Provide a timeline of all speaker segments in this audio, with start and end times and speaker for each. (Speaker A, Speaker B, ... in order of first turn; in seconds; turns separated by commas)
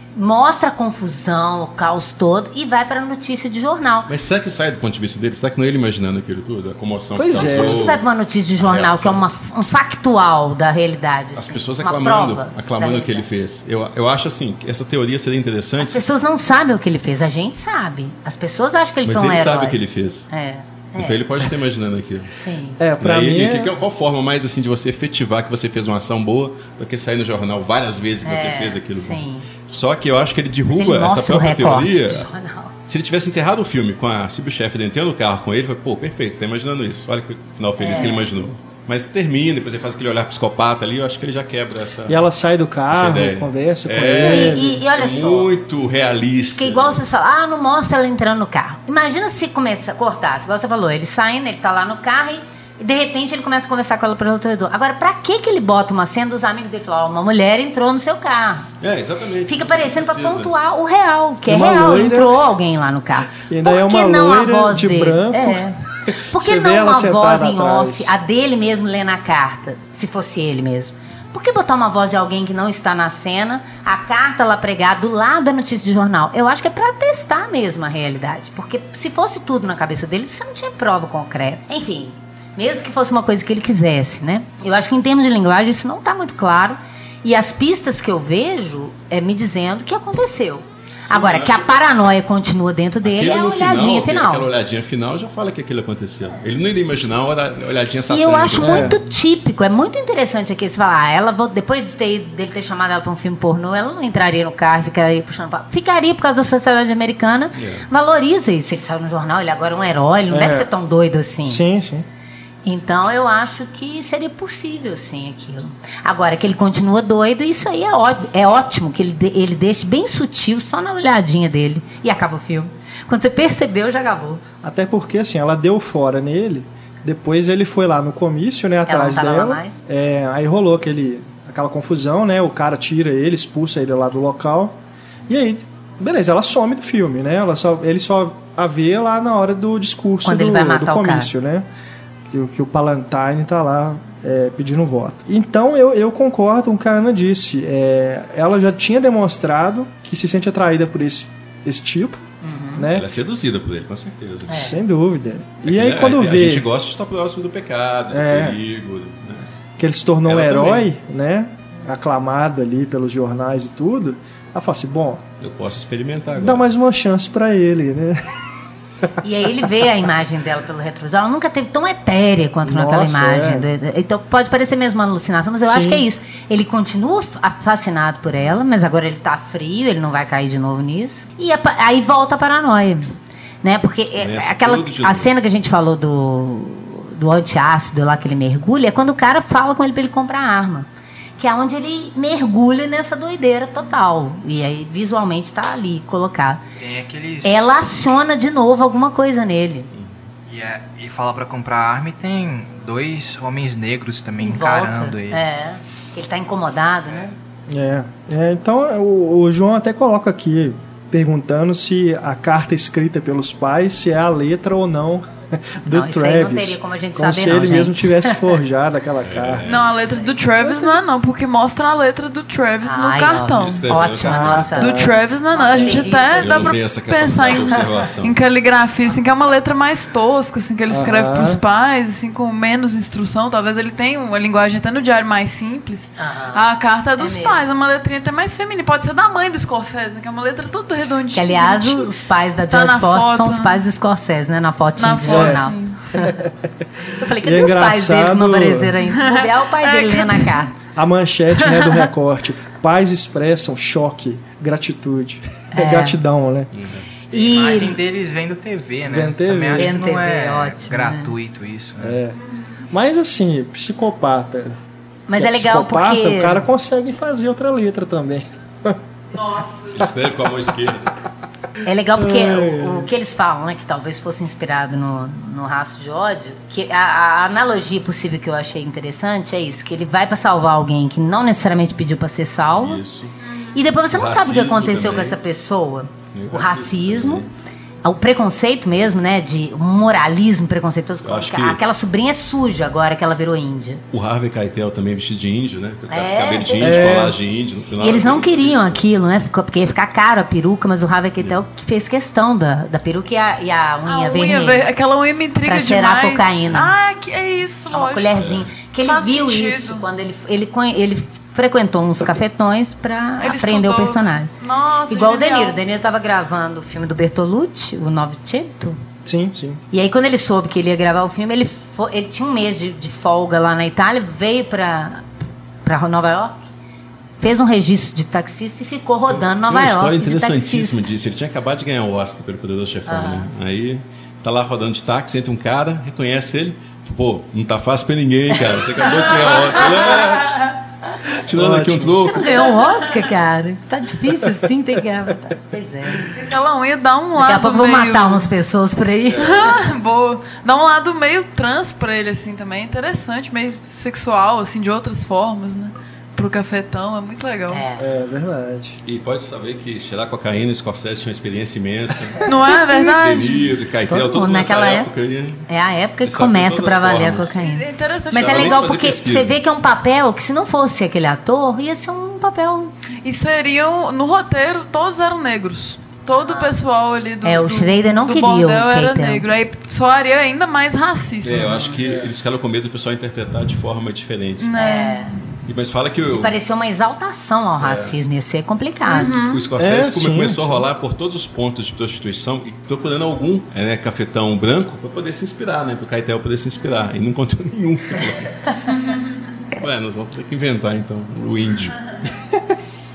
Speaker A: 0.2-4.1, Speaker B: 4.1-8.0, Speaker C: 7.2-7.9, Speaker A: 7.4-13.3, Speaker B: 8.6-9.2, Speaker B: 11.4-16.0, Speaker A: 15.8-19.8, Speaker B: 19.1-20.3, Speaker A: 20.3-21.2, Speaker B: 21.0-22.3, Speaker A: 22.4-22.8, Speaker C: 22.8-23.7, Speaker B: 23.0-32.3, Speaker A: 28.2-29.5, Speaker A: 30.7-32.7, Speaker B: 32.9-42.2, Speaker A: 37.8-38.3, Speaker C: 42.1-44.8, Speaker B: 42.9-47.0, Speaker A: 44.2-45.5, Speaker A: 46.6-58.7, Speaker B: 58.8-60.5, Speaker A: 59.5-94.5, Speaker C: 61.5-62.4, Speaker C: 63.3-68.1, Speaker B: 91.0-91.8, Speaker B: 93.0-99.0, Speaker A: 98.1-111.6, Speaker C: 98.6-99.0, Speaker B: 107.5-107.8, Speaker C: 110.3-110.7, Speaker C: 111.5-112.1, Speaker A: 112.6-124.4, Speaker C: 124.6-141.7, Speaker A: 128.9-129.8, Speaker A: 140.2-141.3, Speaker C: 142.3-152.2, Speaker A: 152.4-152.9, Speaker C: 152.8-153.1, Speaker B: 152.9-154.7, Speaker A: 154.5-154.8, Speaker C: 154.5-156.7, Speaker B: 155.7-159.5, Speaker C: 158.1-158.6, Speaker C: 159.8-165.2, Speaker B: 160.3-160.9, Speaker B: 165.4-166.7, Speaker C: 166.4-168.4, Speaker A: 169.2-190.9, Speaker C: 172.7-173.7, Speaker C: 175.7-176.1, Speaker B: 184.2-185.3, Speaker A: 191.4-196.6, Speaker D: 196.8-197.9, Speaker A: 197.4-199.9, Speaker D: 200.5-205.4, Speaker A: 204.4-207.3, Speaker C: 207.7-219.7, Speaker A: 215.9-218.4, Speaker B: 219.2-219.9, Speaker E: 219.7-224.0, Speaker A: 220.1-220.4, Speaker C: 220.6-220.9, Speaker A: 222.8-226.6, Speaker B: 223.5-224.8, Speaker C: 224.2-225.2, Speaker E: 224.7-242.1, Speaker C: 225.7-226.1, Speaker B: 226.3-228.3, Speaker C: 230.9-231.6, Speaker A: 236.2-237.6, Speaker A: 241.3-246.4, Speaker E: 242.7-243.8, Speaker E: 245.0-246.3, Speaker C: 245.3-245.6, Speaker A: 247.1-250.7, Speaker C: 247.4-248.9, Speaker E: 249.1-250.7, Speaker C: 251.0-256.7, Speaker E: 251.7-251.9, Speaker A: 255.7-256.2, Speaker B: 256.7-257.1, Speaker A: 257.3-258.0, Speaker D: 257.3-262.2, Speaker C: 259.1-259.9, Speaker A: 259.8-261.3, Speaker C: 262.0-262.4, Speaker C: 262.9-264.8, Speaker A: 265.3-266.6, Speaker C: 265.4-269.0, Speaker E: 269.3-270.0, Speaker B: 269.9-271.1, Speaker A: 271.8-283.0, Speaker C: 272.2-273.1, Speaker B: 282.7-283.4, Speaker E: 283.4-283.8, Speaker A: 283.7-287.5, Speaker B: 284.1-285.4, Speaker B: 286.3-287.5, Speaker A: 288.0-294.0, Speaker B: 291.2-291.8, Speaker B: 294.1-299.0, Speaker A: 296.1-297.1, Speaker C: 296.8-297.4, Speaker A: 298.0-304.9, Speaker E: 304.1-310.0, Speaker A: 305.6-306.9, Speaker A: 307.9-314.5, Speaker B: 308.4-308.7, Speaker E: 313.4-315.8, Speaker A: 315.1-319.0, Speaker C: 319.2-319.8, Speaker A: 319.9-325.2, Speaker A: 325.8-326.7, Speaker A: 327.4-331.1, Speaker B: 329.3-340.8, Speaker A: 333.1-333.5, Speaker A: 338.8-340.1, Speaker B: 341.4-342.7, Speaker C: 341.5-342.2, Speaker A: 342.2-346.3, Speaker E: 346.3-348.5, Speaker A: 347.4-349.6, Speaker B: 349.3-349.7, Speaker E: 349.4-357.8, Speaker A: 357.7-358.1, Speaker C: 358.0-359.0, Speaker B: 359.1-365.6, Speaker E: 362.4-363.7, Speaker A: 364.1-365.1, Speaker A: 365.7-372.9, Speaker B: 366.2-367.6, Speaker E: 367.5-368.9, Speaker B: 368.3-369.6, Speaker E: 373.2-382.0, Speaker A: 376.4-376.8, Speaker A: 377.4-379.5, Speaker B: 381.4-384.7, Speaker C: 382.0-382.3, Speaker E: 384.6-385.3, Speaker A: 384.8-385.4, Speaker B: 385.6-386.6, Speaker A: 386.3-389.3, Speaker B: 387.8-388.2, Speaker E: 389.1-389.7, Speaker B: 389.2-398.6, Speaker C: 389.8-390.9, Speaker B: 399.8-402.1